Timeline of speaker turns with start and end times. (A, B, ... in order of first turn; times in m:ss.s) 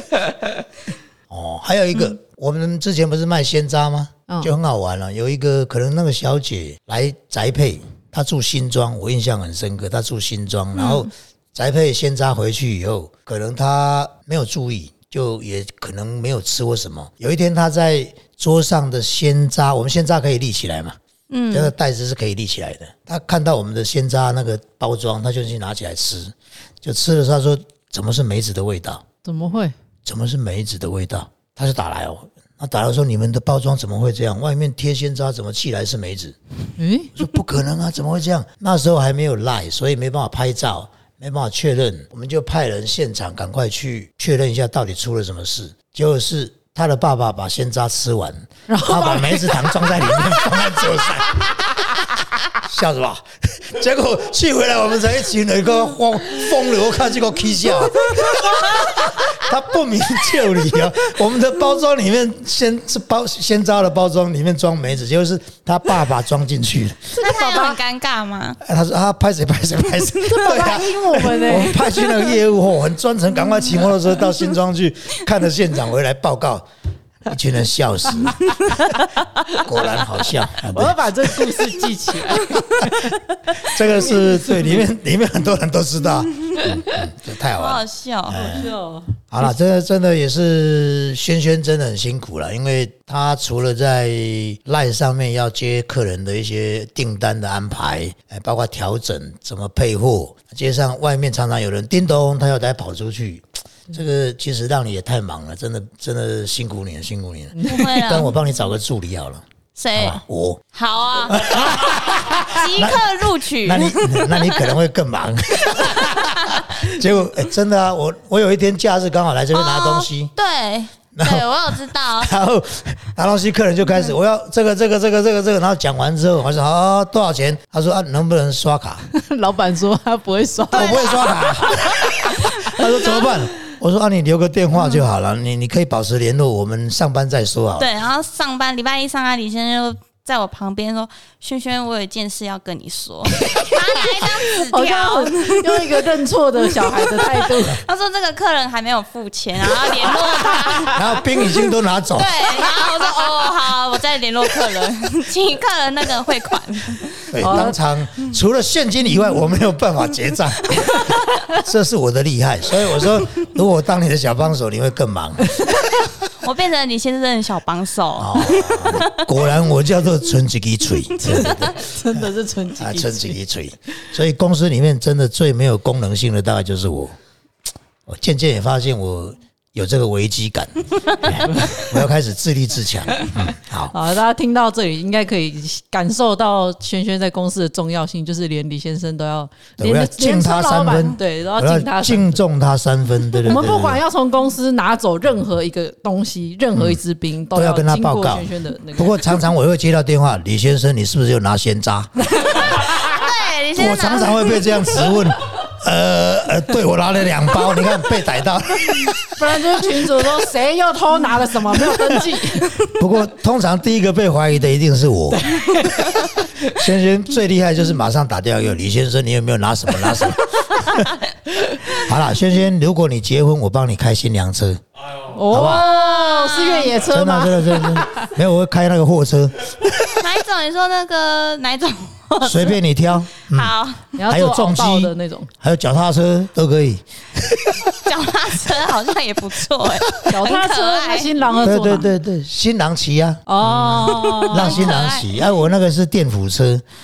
0:01.3-0:21.0 A
0:10.7-0:11.1 B
0:21.3-0:21.7 B
0:21.5-0:29.0 A
0:29.2-0:29.7 C
0:30.0-0:36.4 A
0:36.8-0:37.2 C
0:37.1-1:07.2 A
0:48.7-0:50.3 C
0:58.4-0:58.9 B
1:07.1-1:07.8 C
1:07.2-1:08.6 B
1:08.6-1:16.6 A
1:10.2-1:12.0 C
1:17.2-1:18.4 A
1:18.4-1:19.0 B
1:19.5-1:21.0 A
1:20.7-1:23.2 C
1:23.6-1:28.7 A
1:24.2-1:24.8 C
1:26.4-1:26.9 B
1:27.5-1:28.6 B
1:28.4-1:29.1 C
1:29.2-1:50.6 A
1:47.6-1:47.8 C
1:47.6-1:48.4 B
1:49.8-1:50.2 B
1:50.7-1:54.7 B
1:51.3-1:53.1 A
1:53.6-2:00.3 A
1:55.7-1:56.6 B
1:59.5-2:02.3 B
2:01.1-2:09.0 A
2:09.1-2:12.0 C
2:10.7-2:11.7 B
2:10.7-2:17.9 A
2:17.8-2:26.0 B
2:24.7-2:27.8 C
2:27.0-2:31.0 B
2:30.9-2:32.4 A
2:32.1-2:37.3 B
2:37.3-2:45.6 A
2:37.4-2:37.8 C
2:46.3-2:49.3 B
2:48.2-2:57.1 A
2:51.2-2:53.4 C
2:58.1-3:03.9 A
3:01.5-3:01.9 C
3:03.9-3:12.4 C
3:09.8-3:14.0 A
3:13.4-3:19.4 C
3:16.7-3:17.0 A
3:17.5-3:22.9 A
3:22.3-3:22.9 C
3:22.6-3:25.2 B
3:23.7-3:29.4 A
3:29.4-3:32.7 C
3:33.0-3:35.9 A
3:36.6-3:41.2 A
3:41.8-3:44.8 A
3:45.2-3:48.3 C
3:45.5-3:45.9 A
3:45.7-3:46.9 B
3:47.0-3:50.2 A
3:50.2-3:52.8 B
3:52.4-3:53.7 A
3:53.4-3:54.1 B
3:54.2-3:55.5 C
3:54.2-3:57.9 A
3:58.0-4:01.3 B
4:00.2-4:02.1 C
4:01.6-4:06.8 A
4:03.5-4:04.8 C
4:04.2-4:05.4 B